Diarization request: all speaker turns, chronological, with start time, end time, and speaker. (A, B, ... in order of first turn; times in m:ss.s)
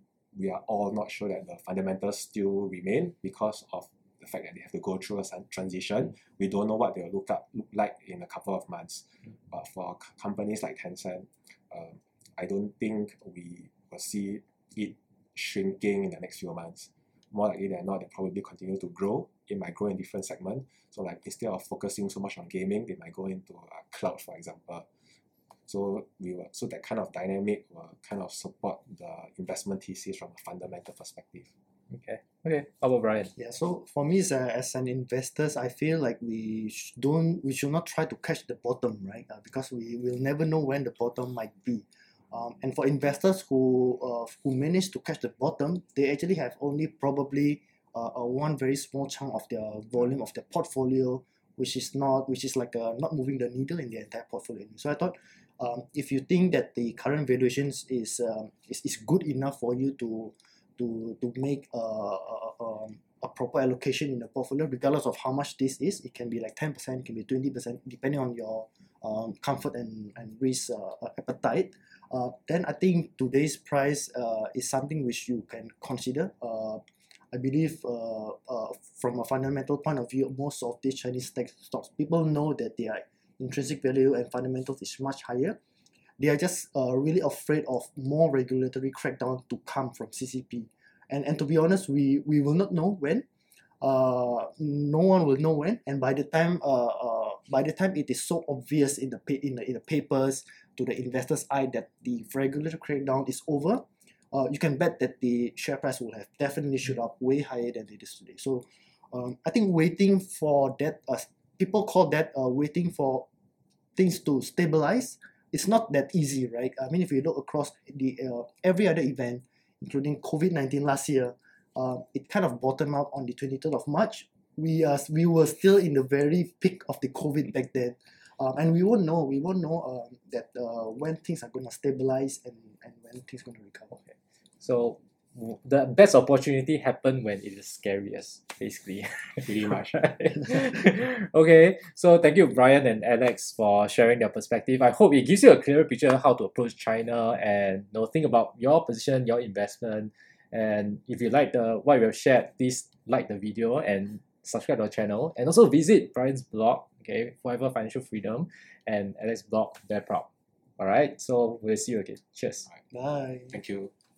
0:00.3-0:24.9 A
0:25.7-0:31.5 A
0:31.9-0:33.3 B
0:33.4-1:25.6 C
1:26.2-1:33.2 C
1:33.8-1:53.3 C
1:54.0-2:13.9 C
2:13.9-2:40.3 B
2:19.4-2:20.1 A
2:40.8-2:42.7 B
2:42.9-2:43.6 C
2:43.5-2:43.9 A